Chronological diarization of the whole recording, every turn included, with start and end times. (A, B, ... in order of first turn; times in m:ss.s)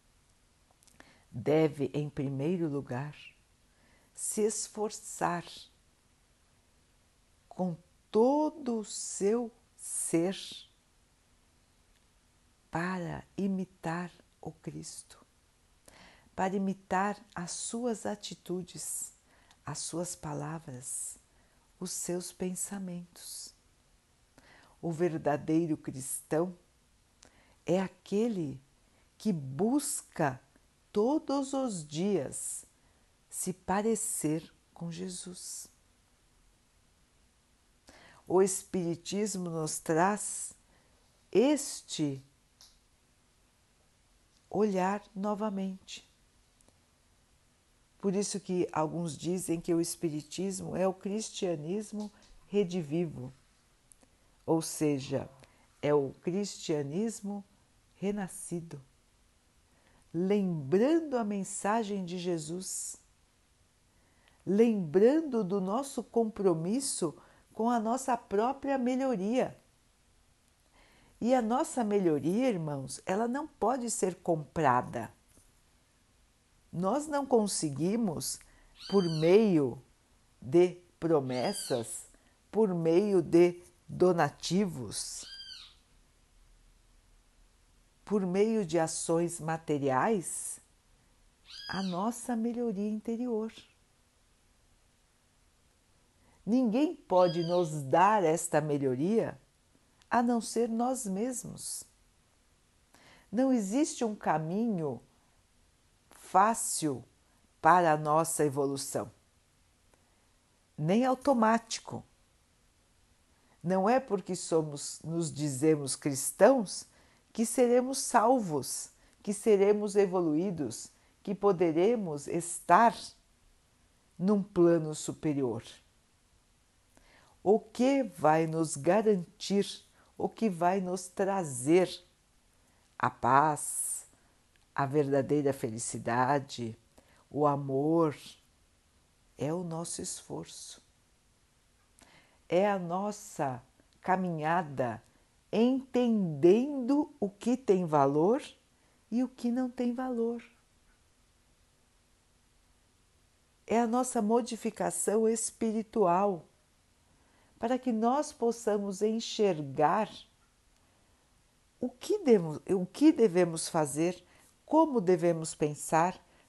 0:01.3-0:03.4 A
0:04.1-0:05.7 A
0:07.5-0:10.7 A
0:12.7-0:15.2 A
0:16.4-0:19.1 A
0:19.6-0:21.2 A
0:21.8-0:23.5 A
0:24.8-0:26.6 A
0:27.6-0:28.6 A
0:29.2-0:32.7 A
0:33.3-0:35.7 A
0:38.3-0:40.6 A
0:41.3-0:42.2 A
0:44.5-0:46.1 A
0:48.0-0:53.3 A
0:54.4-0:55.3 A
0:55.8-0:58.8 A
1:00.1-1:03.0 A
1:04.4-1:09.6 A
1:11.2-1:15.1 A
1:16.7-1:19.8 A
1:20.4-1:25.3 A
1:28.0-1:30.6 A
1:31.7-1:33.7 A
1:36.4-1:39.4 A
1:40.1-1:41.9 A
1:43.3-1:45.0 A
1:46.1-1:47.0 A
1:47.6-1:49.1 A
1:50.8-1:52.0 A
1:53.6-2:03.2 A
2:04.2-2:05.8 A
2:07.4-2:12.0 A
2:13.0-2:14.1 A
2:14.8-2:16.8 A
2:17.3-2:18.4 A
2:19.4-2:20.8 A
2:22.5-2:28.6 A
2:29.1-2:30.6 A
2:33.7-2:36.5 A
2:37.6-2:40.3 A
2:41.8-2:46.2 A